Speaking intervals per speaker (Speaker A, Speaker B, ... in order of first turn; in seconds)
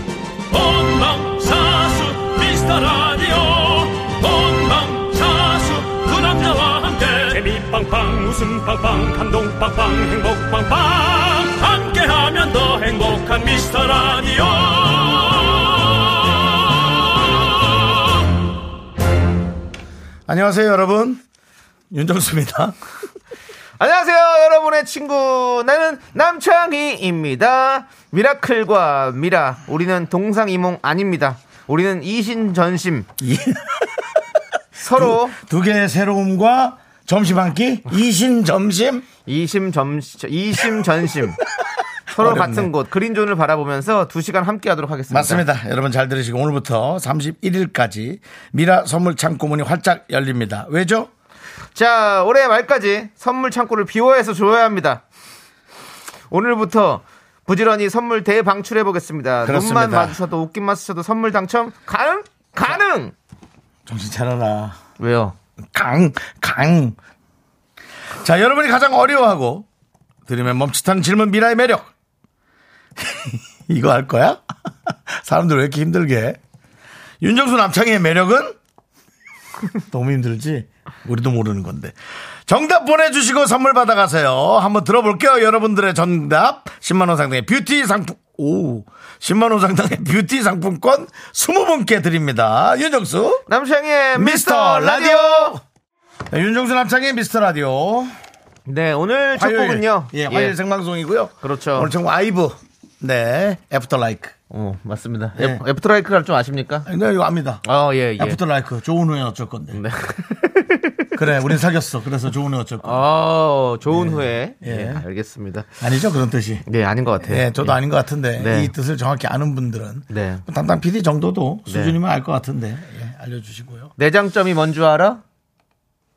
Speaker A: 0.5-17.8
Speaker B: 20.3-21.2, 21.9-22.8, 33.2-34.2, 34.9-39.1, 42.2-42.7, 45.1-51.1, 59.4-60.2, 63.9-64.8, 65.7-67.0, 68.2-69.7, 70.3-71.9, 73.0-76.4, 77.2-78.6, 79.9-82.0, 82.5-93.5, 94.2-95.6, 96.3-98.2, 99.3-104.3, 105.3-105.6, 106.9-107.6, 108.2-109.8, 111.2-113.0, 113.9-115.0, 115.8-116.7, 117.2-123.9
Speaker C: 23.8-33.1, 34.8-35.4, 39.3-41.4, 42.1-45.5, 51.8-55.0, 56.3-63.1, 65.0-65.3, 93.5-95.6, 98.7-100.6, 101.4-101.9, 104.5-106.9, 107.6-108.4, 109.7-111.2, 112.8-115.8, 116.7-117.8, 118.4-118.7, 120.1-120.4, 121.7-122.0, 124.0-125.2